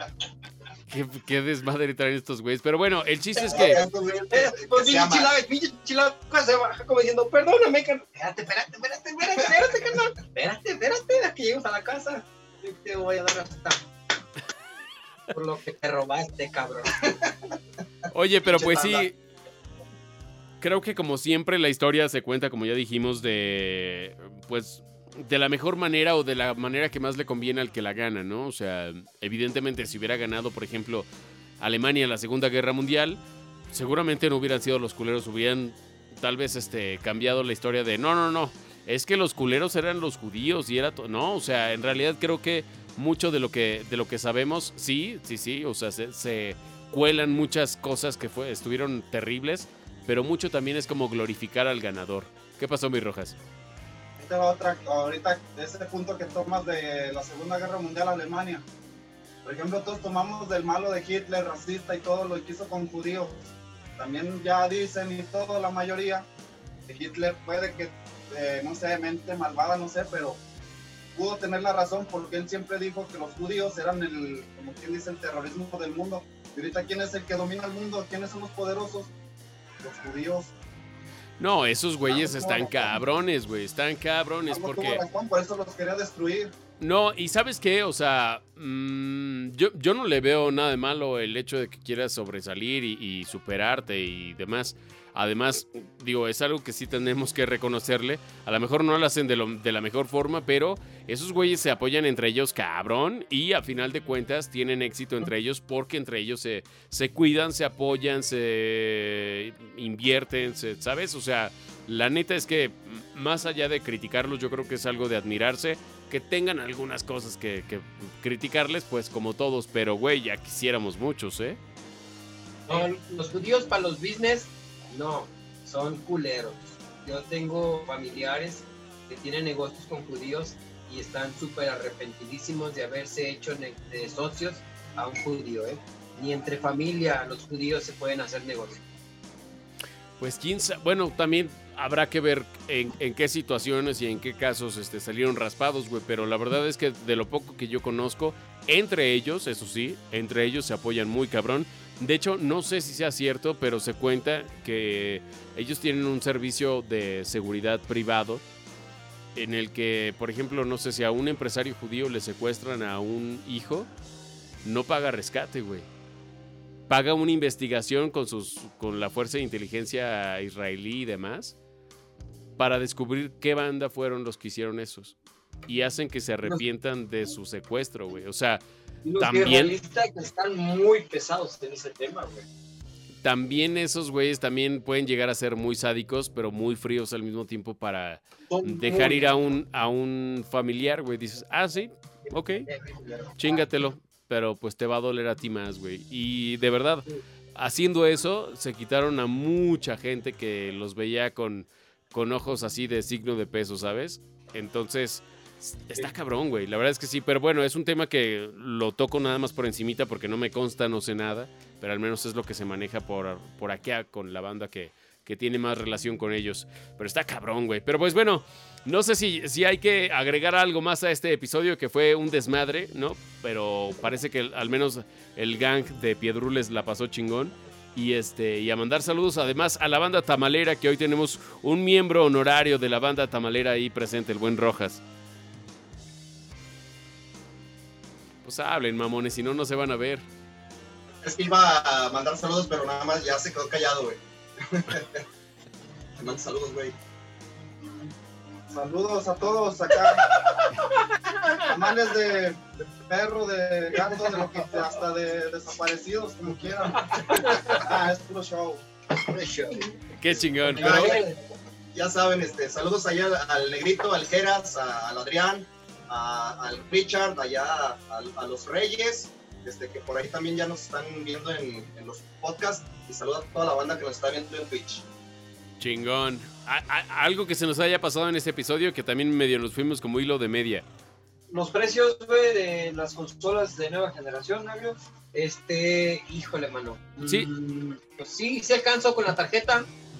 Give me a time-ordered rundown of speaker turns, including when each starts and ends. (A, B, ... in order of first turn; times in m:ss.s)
0:00.9-0:03.8 A
0:03.4-0:05.3 B
0:03.5-0:13.8 C
0:15.3-0:16.9 C
0:18.1-0:19.2 A
0:18.5-0:19.1 B
0:20.6-0:31.1 A
0:31.6-0:53.4 A
0:54.2-0:58.6 D
0:59.4-1:06.3 D
1:06.9-1:10.4 D
1:11.2-1:19.1 D
1:19.8-1:20.5 D
1:21.4-1:25.0 A
1:22.1-1:23.0 D
1:24.5-1:26.5 D
1:26.8-2:01.6 A
2:02.7-2:18.8 C
2:20.2-2:38.4 A
2:39.4-2:43.9 A
2:44.6-2:45.9 A
2:46.9-2:51.6 A
2:52.6-2:55.2 A
2:55.7-2:58.6 A
2:59.0-3:02.5 E
2:59.2-2:59.8 A
3:03.2-3:12.7 A
3:08.5-3:09.3 E
3:12.7-3:13.6 C
3:13.4-3:17.0 A
3:17.6-3:55.0 A
3:58.4-4:00.2 A
4:01.2-4:05.2 B
4:06.2-4:07.0 B
4:08.7-4:10.3 D
4:10.3-4:11.7 C
4:11.7-4:18.8 D
4:17.1-4:17.8 C
4:19.2-4:19.8 C
4:20.2-4:21.2 A
4:20.7-4:21.4 C
4:20.8-4:21.3 B
4:21.9-4:35.0 B
4:35.8-4:40.8 A
4:41.5-4:45.0 E
4:45.3-4:49.9 C
4:47.2-4:47.5 A